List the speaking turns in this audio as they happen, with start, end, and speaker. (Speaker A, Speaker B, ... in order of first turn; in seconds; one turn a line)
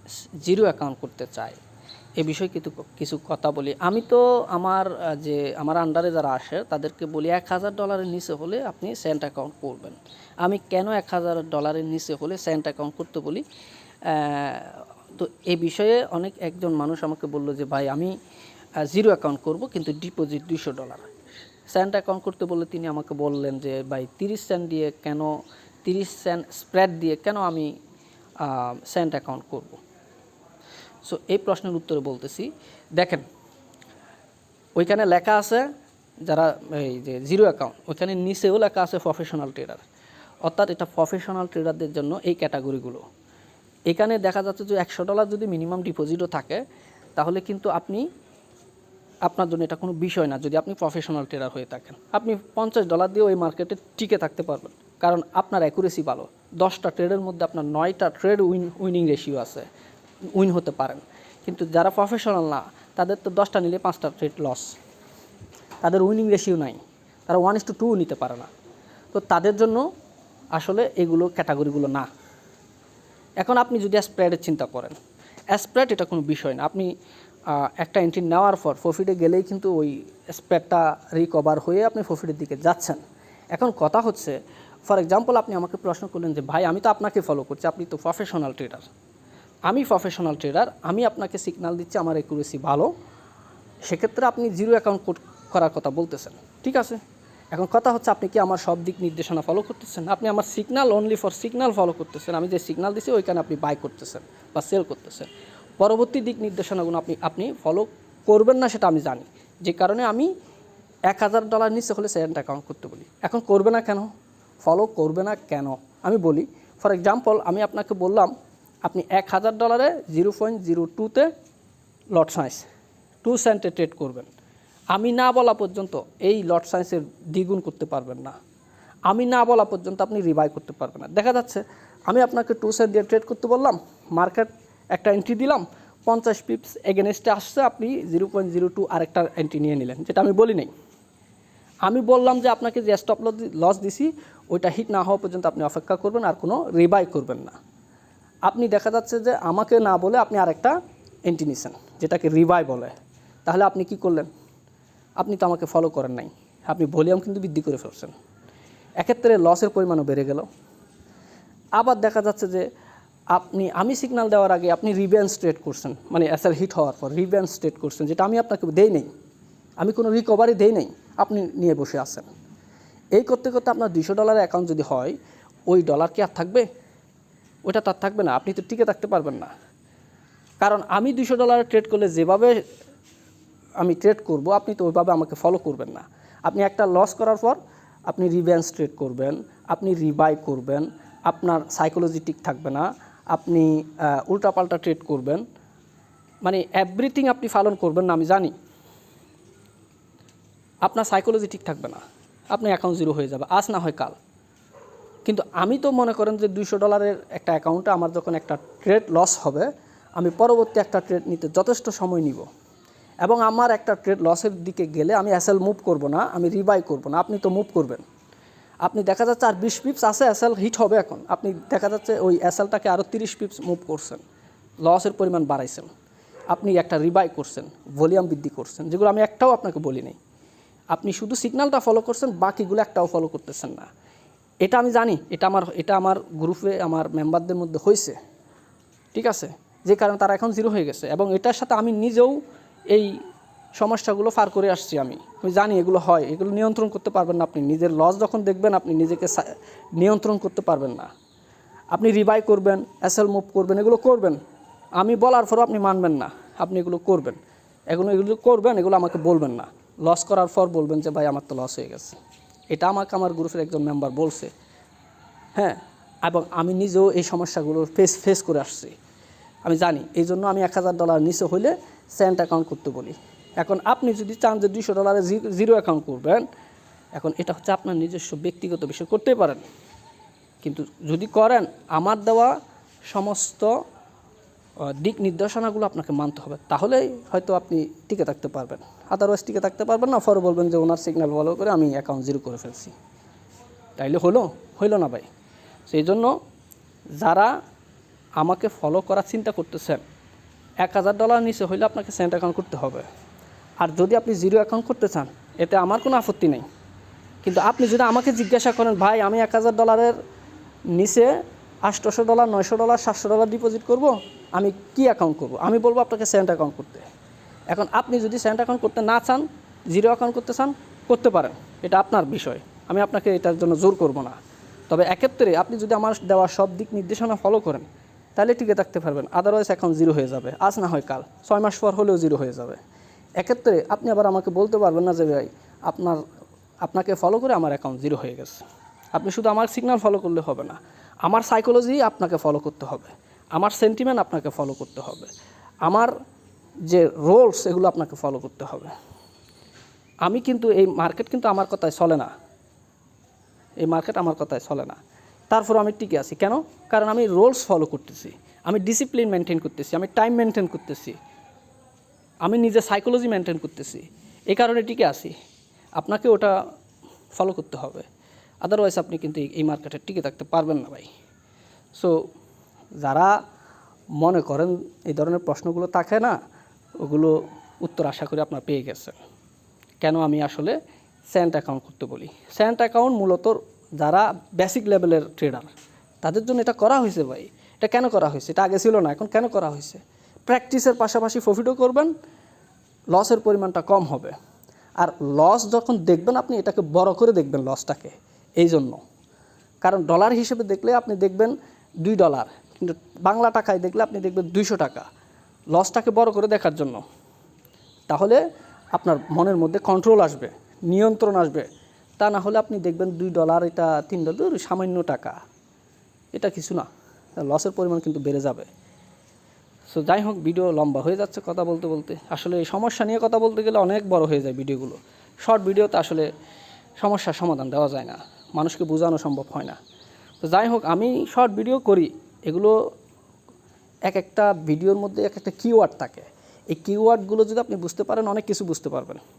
Speaker A: 0.4-1.6
Speaker A: 2.2-13.4
Speaker A: 14.1-18.1
Speaker A: 18.8-21.0
Speaker A: 21.7-25.3
Speaker A: 25.8-27.7
Speaker A: 28.4-29.8
Speaker A: 31.1-33.2
Speaker A: 34.8-35.7
Speaker A: 36.3-39.8
Speaker A: 40.5-43.0
Speaker A: 43.9-46.6
Speaker A: 47.2-48.0
Speaker A: 49.2-59.6
Speaker A: 60.3-64.7
Speaker A: 65.8-68.5
Speaker A: 69.1-69.8
Speaker A: 70.5-72.1
Speaker A: 73.4-75.0
Speaker A: 75.5-76.9
Speaker A: 77.5-83.0
Speaker A: 83.5-88.8
Speaker A: 89.7-92.9
Speaker A: 93.9-97.0
Speaker A: 97.5-110.3
Speaker A: 111.1-114.1
Speaker A: 114.6-118.3
Speaker A: 118.8-121.3
Speaker A: 122.1-122.7
Speaker A: 123.2-124.3
Speaker A: 124.9-128.3
Speaker A: 129.1-140.7
Speaker A: 141.8-147.6
Speaker A: 148.5-152.9
Speaker A: 153.4-154.3
Speaker A: 155.2-158.1
Speaker A: 159.0-160.5
Speaker A: 161.8-162.7
Speaker A: 163.3-169.1
Speaker A: 169.8-172.3
Speaker A: 173.2-175.2
Speaker A: 175.7-176.7
Speaker A: 177.7-179.5
Speaker A: 180.6-182.6
Speaker A: 183.8-195.4
Speaker A: 196.4-198.5
Speaker A: 200.8-202.0
Speaker A: 202.5-204.2
Speaker A: 205.2-212.4
Speaker A: 213.2-218.0
Speaker A: 218.8-224.2
Speaker A: 224.8-225.9
Speaker A: 226.5-230.2
Speaker A: 230.9-233.9
Speaker A: 234.6-238.2
Speaker A: 239.1-242.4
Speaker A: 243.8-251.1
Speaker A: 251.9-254.4
Speaker A: 255.0-257.4
Speaker A: 257.9-262.2
Speaker A: 262.7-264.5
Speaker A: 265.6-268.9
Speaker A: 269.6-276.4
Speaker A: 277.2-279.6
Speaker A: 280.6-282.5
Speaker A: 283.1-283.7
Speaker A: 284.8-292.9
Speaker A: 294.0-295.3
Speaker A: 295.9-296.3
Speaker A: 297.2-297.5
Speaker A: 298.4-300.0
Speaker A: 300.8-303.1
Speaker A: 303.8-306.6
Speaker A: 307.4-310.1
Speaker A: 310.9-311.3
Speaker A: 311.8-317.1
Speaker A: 317.7-324.4
Speaker A: 324.9-332.8
Speaker A: 333.4-336.2
Speaker A: 336.8-338.6
Speaker A: 339.1-345.3
Speaker A: 345.9-346.1
Speaker A: 346.9-348.9
Speaker A: 350.2-352.3
Speaker A: 353.8-355.0
Speaker A: 355.5-361.2
Speaker A: 362.4-365.3
Speaker A: 366.0-366.5
Speaker A: 367.3-368.1
Speaker A: 368.6-371.1
Speaker A: 373.0-373.4
Speaker A: 374.2-376.4
Speaker A: 377.0-379.1
Speaker A: 380.0-380.8
Speaker A: 381.3-385.7
Speaker A: 386.2-392.1
Speaker A: 393.1-394.3
Speaker A: 395.0-399.0
Speaker A: 399.8-405.1
Speaker A: 405.7-407.0
Speaker A: 408.1-408.4
Speaker A: 408.9-411.7
Speaker A: 412.2-415.4
Speaker A: 416.3-416.9
Speaker A: 417.4-418.7
Speaker A: 419.9-426.3
Speaker A: 427.0-429.8
Speaker A: 430.4-432.7
Speaker A: 434.1-439.2